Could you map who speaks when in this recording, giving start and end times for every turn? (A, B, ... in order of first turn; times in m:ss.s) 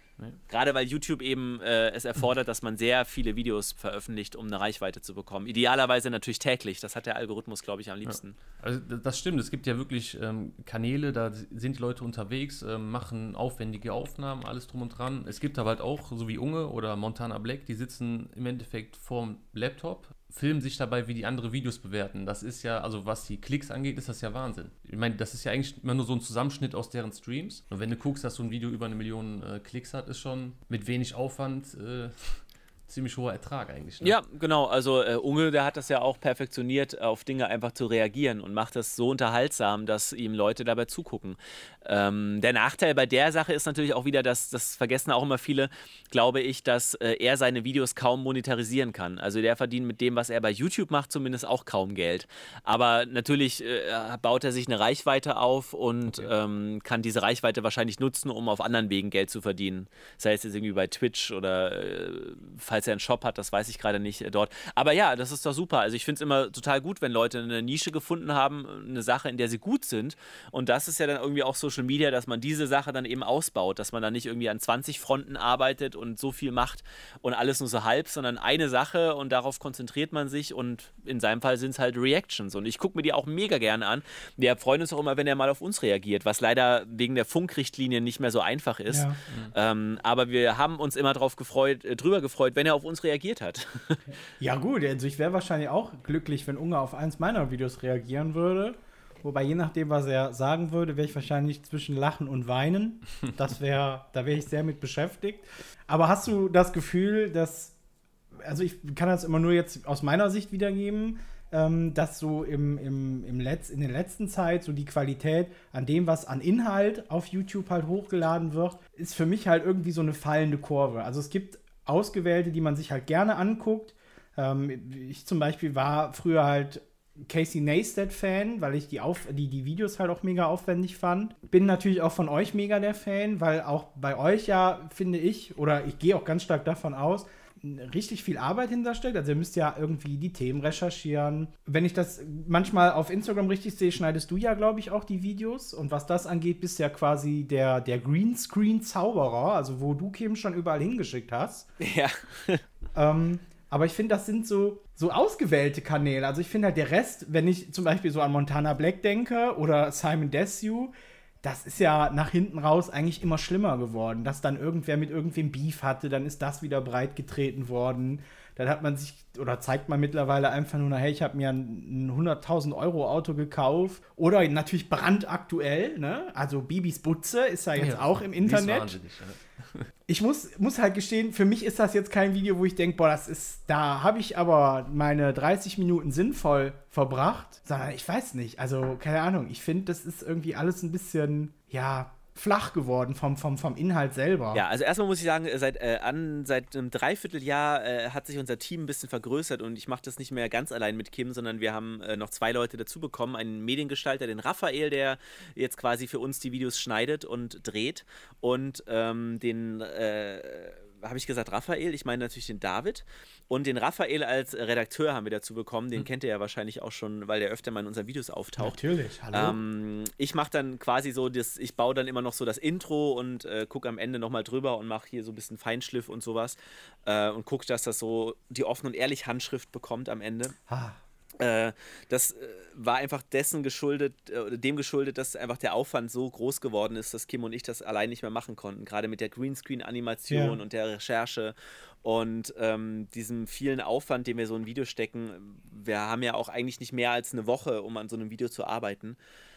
0:00.5-0:08.4 A
0:08.0-0:34.1 B
0:34.0-1:34.0 A
1:28.9-1:29.2 C
1:34.4-1:47.7 C
1:48.4-2:31.7 C
2:31.8-2:32.6 A
2:32.9-2:59.0 C
2:57.8-2:59.8 B
3:00.1-3:14.6 C
3:14.5-3:38.8 A
3:38.6-3:39.6 C
3:39.3-3:50.6 A
3:50.7-3:51.0 C
3:51.4-4:09.2 A
4:00.3-4:00.6 C